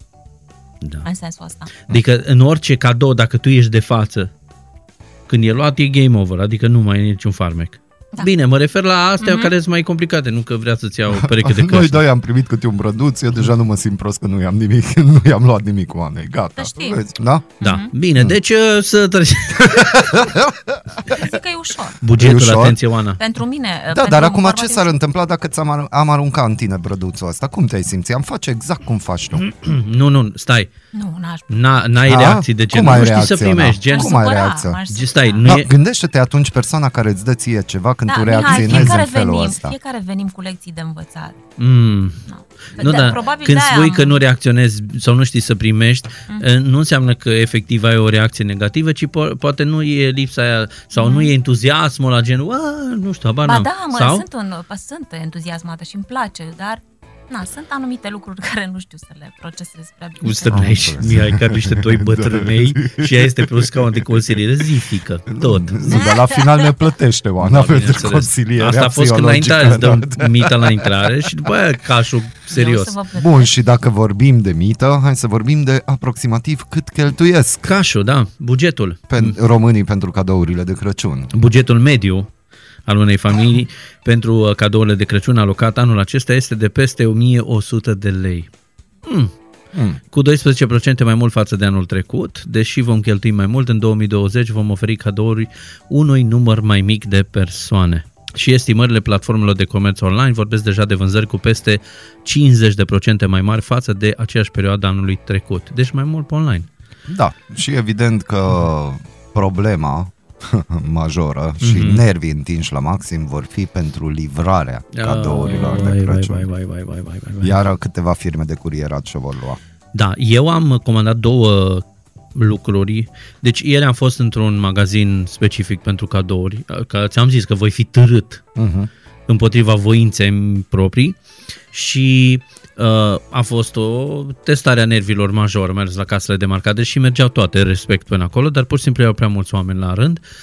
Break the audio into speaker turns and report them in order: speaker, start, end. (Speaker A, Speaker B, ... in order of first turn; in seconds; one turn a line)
Speaker A: 1.0-1.7
Speaker B: 1.8-4.3
Speaker B: 5.3-12.0
Speaker A: 9.2-9.5
Speaker C: 11.1-17.5
Speaker A: 16.6-17.0
Speaker A: 17.6-17.9
Speaker B: 17.6-20.1
Speaker C: 19.6-21.2
Speaker A: 21.1-22.0
Speaker B: 22.0-23.2
Speaker C: 22.1-22.8
Speaker A: 23.2-24.9
Speaker C: 23.9-29.4
Speaker B: 29.4-30.7
Speaker A: 30.9-31.5
Speaker B: 31.5-34.2
Speaker C: 32.0-34.8
Speaker A: 33.9-35.5
Speaker B: 34.9-35.7
Speaker C: 35.4-39.8
Speaker A: 38.1-41.4
Speaker B: 38.4-39.0
Speaker B: 41.6-42.2
Speaker A: 42.2-44.2
Speaker B: 42.8-54.2
Speaker A: 50.9-51.3
Speaker A: 53.4-60.8
Speaker B: 60.2-66.0
Speaker C: 60.5-64.4
Speaker C: 65.3-71.1
Speaker A: 65.9-66.5
Speaker B: 67.4-72.9
Speaker A: 72.5-73.5
Speaker C: 73.1-77.7
Speaker B: 77.6-79.3
Speaker C: 79.1-81.3
Speaker B: 81.3-82.3
Speaker B: 82.9-88.5
Speaker B: 89.0-89.3
Speaker C: 89.7-90.0
Speaker B: 90.1-106.7
Speaker C: 107.1-116.5
Speaker B: 111.6-112.0
Speaker B: 114.9-117.6
Speaker C: 117.4-119.6
Speaker B: 119.9-121.8
Speaker B: 122.3-128.4
Speaker C: 128.6-128.9
Speaker B: 129.3-131.2
Speaker B: 131.7-140.2